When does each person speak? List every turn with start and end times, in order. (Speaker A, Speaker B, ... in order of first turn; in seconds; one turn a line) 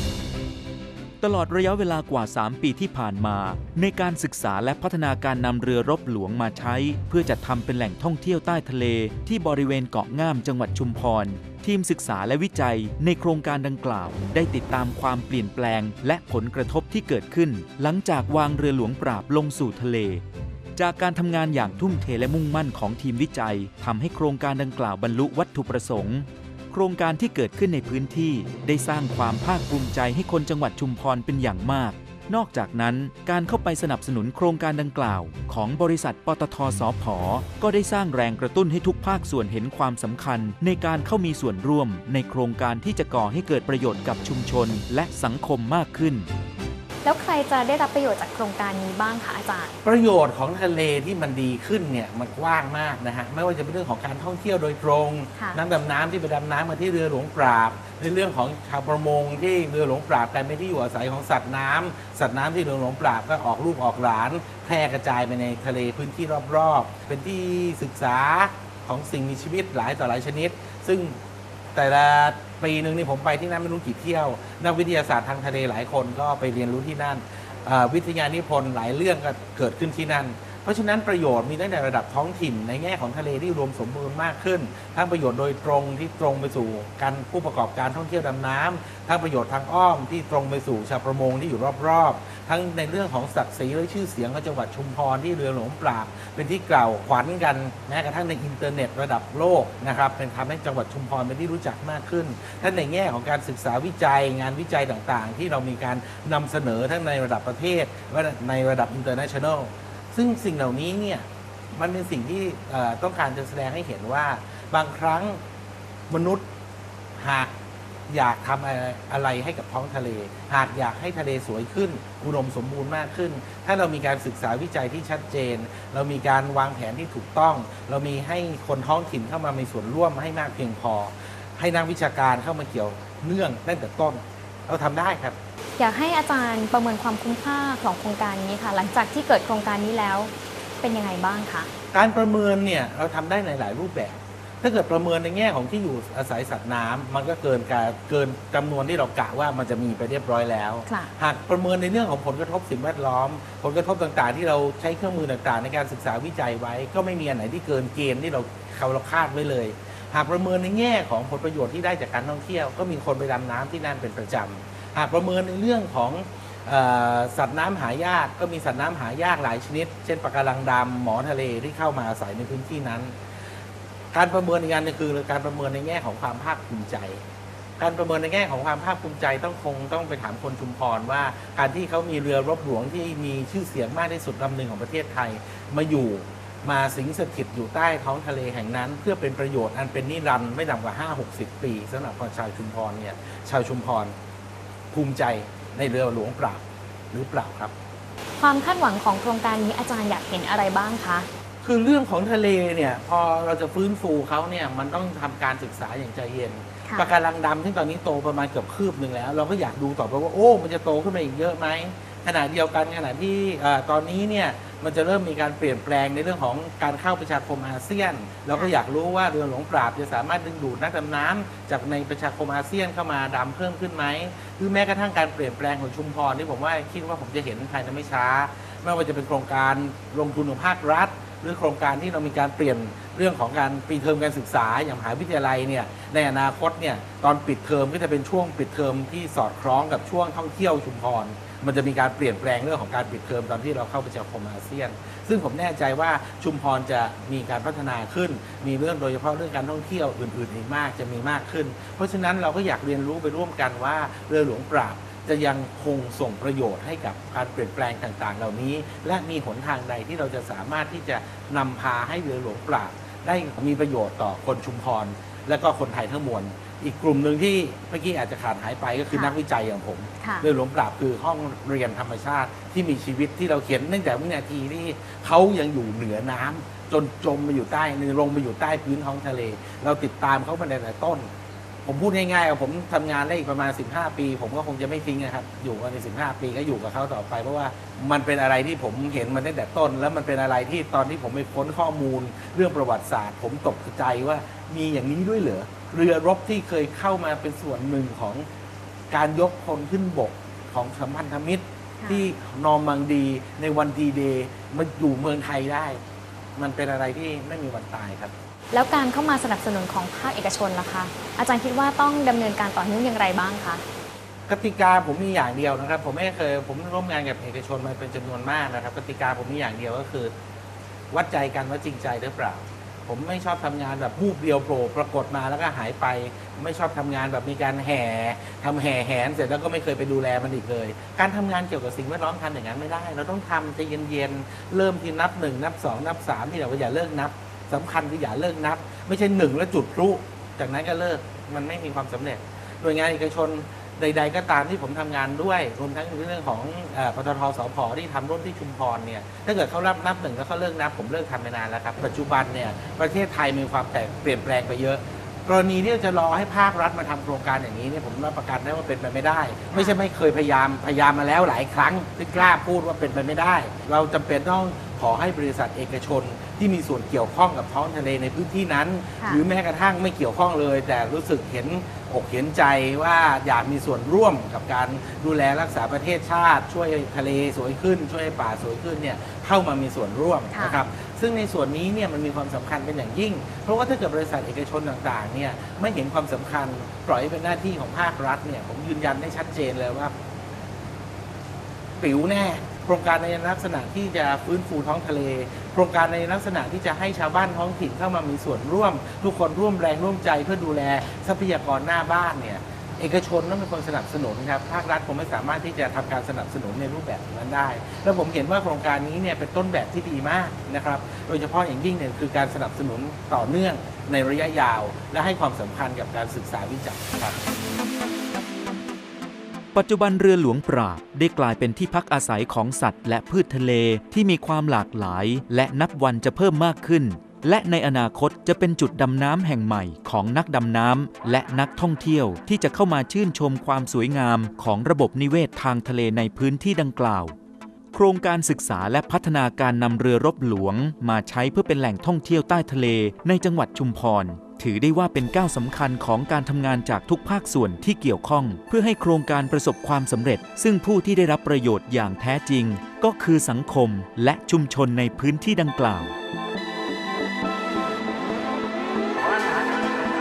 Speaker A: 1.2-20.2
Speaker A: 20.8-46.3
Speaker B: 47.0-49.8
Speaker C: 49.8-71.2
Speaker B: 55.3-55.6
Speaker C: 71.7-115.4
Speaker C: 116.1-116.4
Speaker C: 117.2-117.5
Speaker C: 118.1-135.4
Speaker B: 135.8-141.7
Speaker C: 141.9-173.1
Speaker B: 150.9-151.1
Speaker C: 174.1-177.2
Speaker C: 177.8-194.1
Speaker C: 194.9-197.7
Speaker B: 198.4-201.3
Speaker C: 201.6-281.3
Speaker B: 206.8-207.1
Speaker B: 270.2-270.5
Speaker C: 281.8-298.5
Speaker C: 299.1-306.0
Speaker B: 302.0-302.3
Speaker C: 306.6-308.3
Speaker B: 308.7-313.8
Speaker C: 314.5-320.3
Speaker C: 321.1-390.1
Speaker B: 359.7-360.0
Speaker B: 380.5-380.8
Speaker C: 392.0-417.4
Speaker A: 419.7-437.3
Speaker A: 437.9-456.1